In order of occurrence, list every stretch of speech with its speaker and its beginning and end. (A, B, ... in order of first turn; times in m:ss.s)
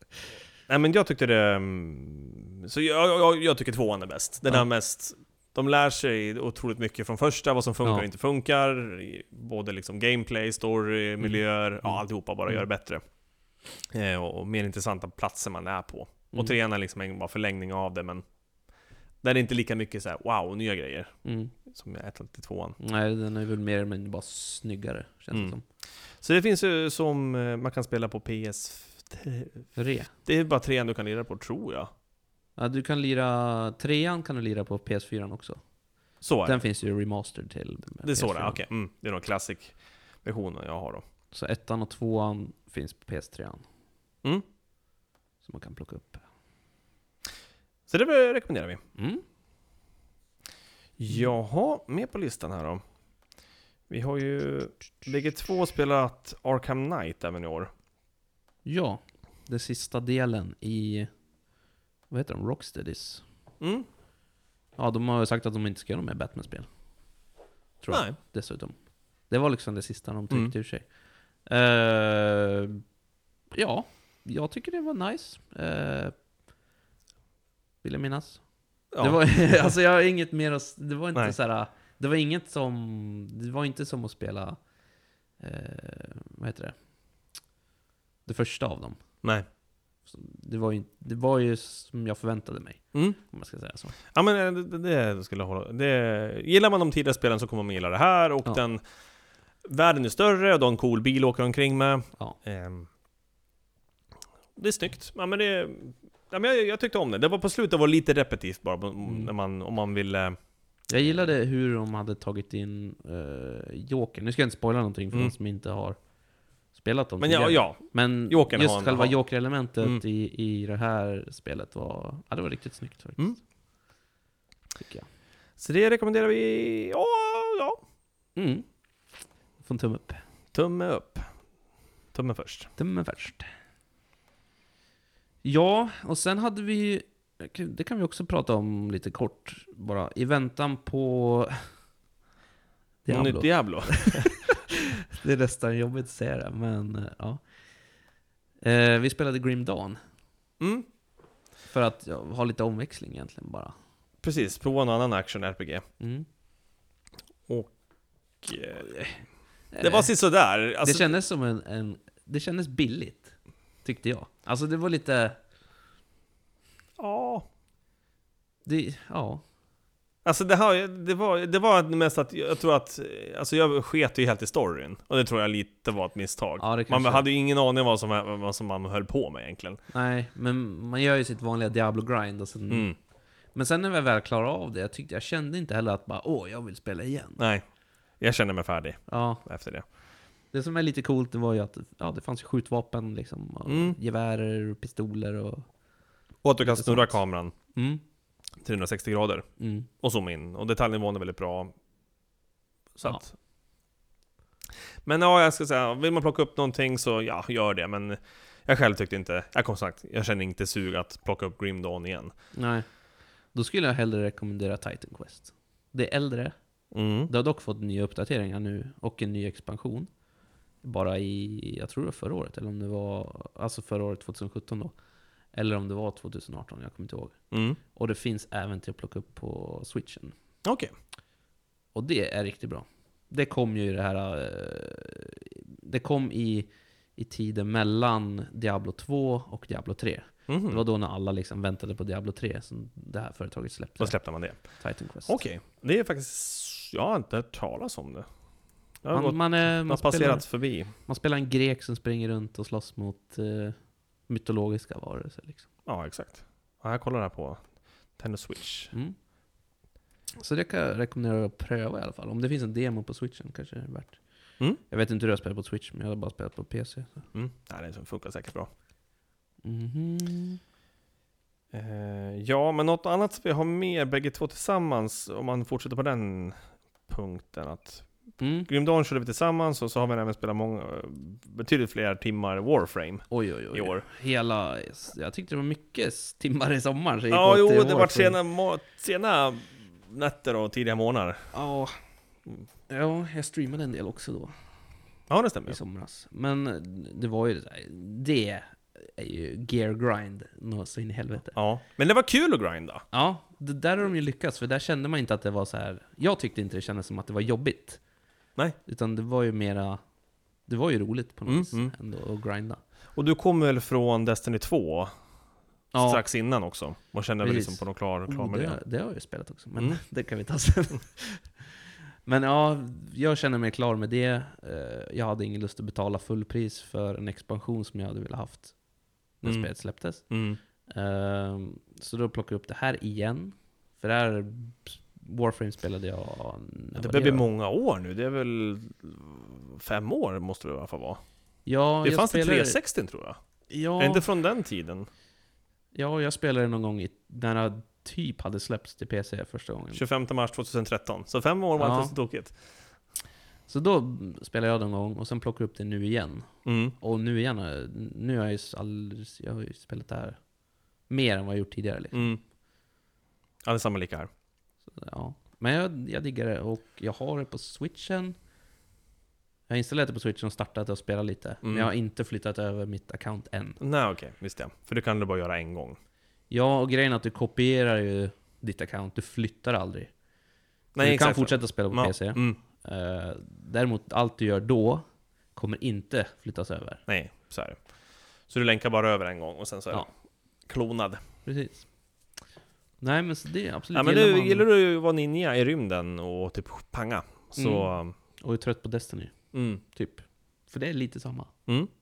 0:00.7-0:13.0 A
0:11.2-0:12.6 B
0:13.9-0:18.2 A
0:19.2-0:21.1 A
0:21.2-0:21.5 B
0:21.6-0:22.8 A
0:22.8-0:25.6 B
0:26.2-0:31.9 A
0:29.8-0:30.1 B
0:32.6-0:35.6 B
0:36.2-0:36.6 A
0:36.4-0:38.6 B
0:38.0-0:41.0 A
0:41.3-0:43.6 B
0:45.4-0:46.2 B
0:47.9-0:48.8 A
0:49.0-0:49.2 B
0:51.0-0:52.8 A
0:53.9-0:57.7 A
0:58.6-1:01.1 B
1:02.1-1:03.2 B
1:03.6-1:03.9 A
1:04.8-1:06.7 B
1:07.8-1:08.7 B
1:07.9-1:08.2 A
1:09.3-1:10.9 B
1:11.4-1:12.8 B
1:13.5-1:16.1 B
1:17.8-1:24.6 B
1:18.9-1:19.7 A
1:25.4-1:26.7 B
1:28.2-1:29.0 B
1:30.1-1:33.9 B
1:34.1-1:38.8 A
1:39.6-1:42.9 A
1:44.6-1:50.4 A
1:49.0-1:49.3 B
1:50.9-1:56.0 B
1:56.7-2:03.4 B
1:57.2-1:59.2 A
2:04.8-2:05.1 B
2:05.6-2:07.8 A
2:08.4-2:08.6 B
2:09.6-2:10.2 B
2:10.5-2:11.3 A
2:12.1-2:12.7 A
2:12.8-2:13.5 B
2:15.4-2:21.6 B
2:23.0-2:27.4 B
2:23.1-2:24.3 A
2:28.6-2:30.0 B
2:30.6-2:30.9 A
2:31.7-2:33.7 B
2:34.2-2:35.8 A
2:36.0-2:36.2 B
2:37.5-2:37.7 A
2:38.4-2:38.9 A
2:38.8-2:39.2 B
2:39.7-2:40.1 B
2:39.8-2:41.1 A
2:40.8-2:45.4 B
2:47.0-2:47.5 A
2:48.6-2:49.4 B
2:50.2-2:59.8 A
2:56.6-2:57.2 B
2:59.9-3:02.9 B
3:02.7-3:03.0 A
3:03.5-3:07.4 B
3:07.4-3:07.6 A
3:08.2-3:09.8 A
3:09.1-3:09.4 B
3:10.5-3:15.6 B
3:13.7-3:14.0 A
3:16.4-3:17.5 A
3:16.6-3:17.2 B
3:17.7-3:18.0 B
3:18.6-3:19.5 A
3:19.6-3:19.9 B
3:20.0-3:21.7 A
3:23.0-3:23.3 A
3:25.0-3:32.3 A
3:32.5-3:32.8 B
3:33.5-3:36.5 B
3:36.9-3:37.3 A
3:37.3-3:40.1 B
3:40.8-3:44.9 B
3:45.5-3:50.3 B
3:47.5-3:47.8 A
3:50.6-3:50.9 A
3:51.9-4:05.4 B
4:00.5-4:00.8 A
4:04.0-4:08.3 A
4:09.0-4:10.9 A
4:09.1-4:10.4 B
4:11.0-4:15.7 B
4:15.8-4:18.9 A
4:20.4-4:24.2 B
4:24.8-4:27.2 B
4:27.3-4:28.7 A
4:29.6-4:30.6 B
4:31.7-4:38.1 A
4:38.4-4:38.7 B
4:38.7-4:44.0 A
4:43.3-4:48.4 B
4:47.3-4:51.5 A
4:51.5-4:52.0 B
4:52.9-4:54.5 B
4:55.3-4:55.8 A
4:55.7-5:01.6 B
5:01.5-5:03.0 A
5:03.1-5:08.0 B
5:08.8-5:10.0 B
5:10.6-5:12.8 B
5:11.5-5:11.9 A
5:13.1-5:15.1 A
5:15.9-5:16.2 B
5:16.0-5:18.8 A
5:17.4-5:28.8 B
5:29.3-5:30.3 B
5:29.4-5:30.6 A
5:30.8-5:37.4 B
5:37.0-5:41.2 A
5:41.6-5:42.8 B
5:42.0-5:43.4 A
5:43.7-5:44.2 B
5:44.0-5:45.1 A
5:45.9-5:50.0 B
5:49.9-5:52.6 A
5:51.8-5:52.1 B
5:53.7-6:00.4 B
5:56.6-5:56.9 A
6:01.1-6:02.3 B
6:02.1-6:02.4 A
6:03.6-6:04.3 A
6:04.9-6:08.3 B
6:09.7-6:13.8 B
6:11.6-6:11.9 A
6:13.8-6:16.0 A
6:16.5-6:20.1 B
6:20.9-6:22.6 A
6:21.0-6:27.0 B
6:27.1-6:27.8 A
6:28.5-6:30.1 A
6:30.6-6:31.2 A
6:31.4-6:31.8 B
6:33.0-6:34.6 B
6:33.9-6:38.1 A
6:37.6-6:37.9 B
6:38.4-6:41.5 B
6:39.5-6:39.8 A